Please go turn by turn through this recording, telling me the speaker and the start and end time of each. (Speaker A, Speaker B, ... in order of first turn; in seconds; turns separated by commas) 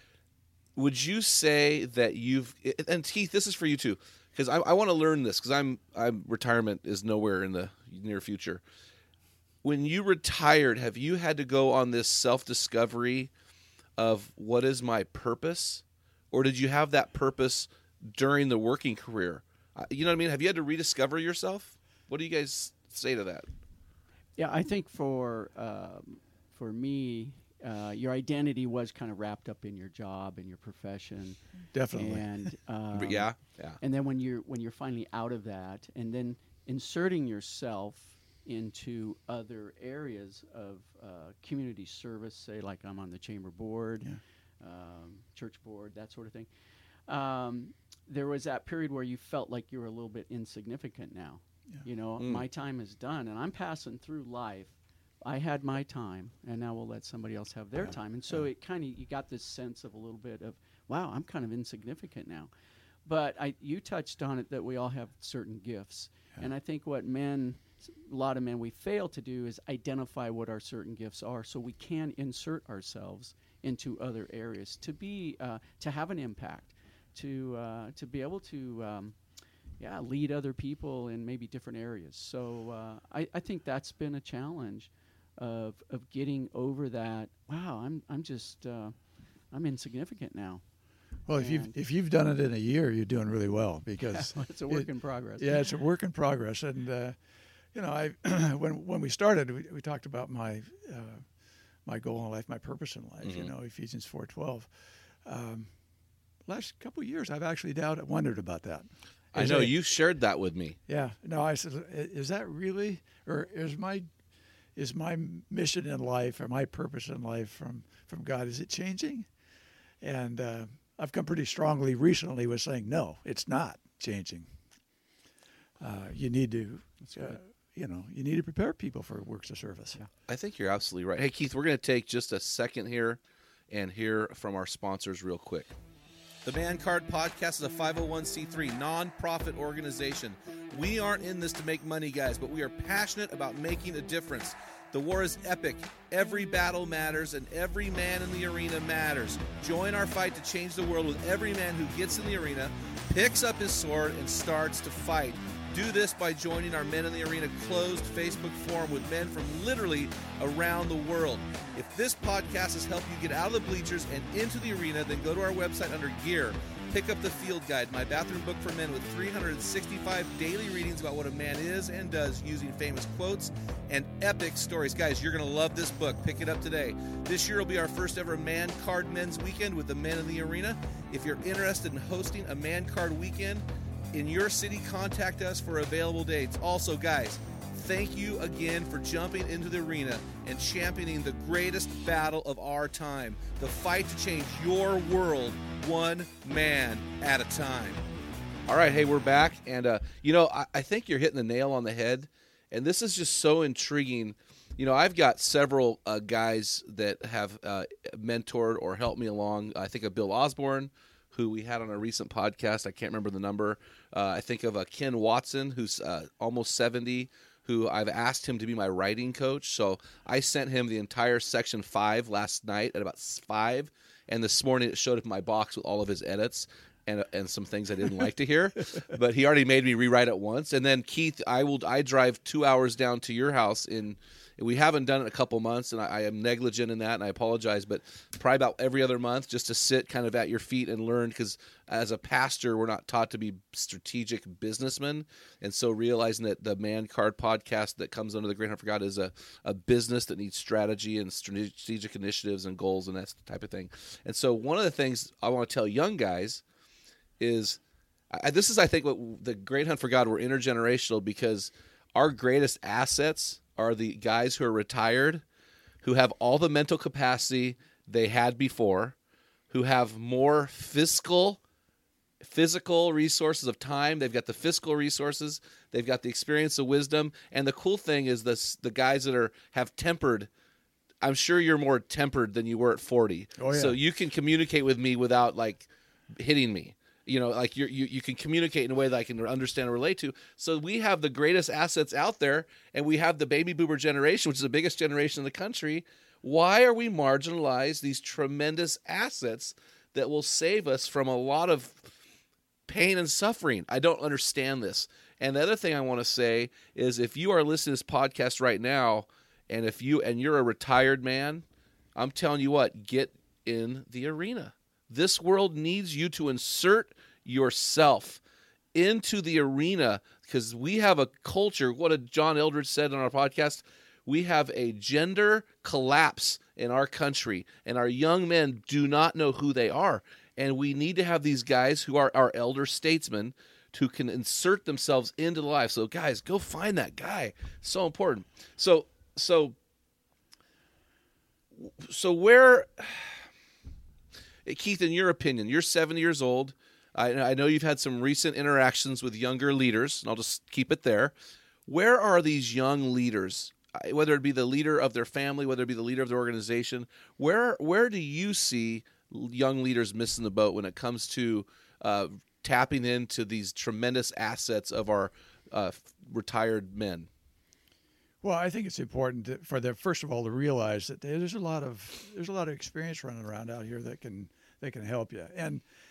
Speaker A: 0.8-8.6, Speaker A: 9.6-13.3, Speaker A: 14.0-23.5, Speaker B: 24.4-31.4, Speaker C: 31.7-32.5, Speaker B: 31.9-46.5, Speaker A: 32.9-33.8, Speaker B: 47.1-62.5, Speaker A: 52.2-52.4, Speaker C: 57.8-58.5, Speaker B: 63.0-79.2, Speaker B: 79.8-89.0, Speaker B: 89.5-90.6, Speaker C: 91.3-97.2, Speaker B: 91.3-91.7, Speaker B: 94.1-95.6, Speaker C: 97.7-101.2, Speaker C: 101.9-104.7, Speaker A: 103.2-103.5, Speaker C: 105.2-105.7, Speaker C: 106.5-109.8, Speaker A: 109.3-110.8, Speaker C: 110.9-114.1, Speaker C: 114.8-119.3, Speaker C: 120.0-124.5, Speaker C: 125.8-130.0, Speaker A: 130.3-133.2, Speaker A: 133.7-135.7, Speaker A: 136.4-198.0, Speaker A: 198.7-256.6, Speaker A: 257.4-257.8, Speaker A: 258.3-265.4, Speaker A: 266.0-269.2, Speaker A: 269.7-271.6, Speaker A: 272.4-280.5, Speaker A: 281.2-302.1, Speaker C: 283.6-284.0, Speaker A: 302.9-311.6, Speaker A: 312.2-318.4, Speaker A: 318.9-339.8, Speaker A: 341.8-343.4, Speaker A: 344.6-351.3, Speaker A: 351.9-367.3, Speaker C: 368.4-375.8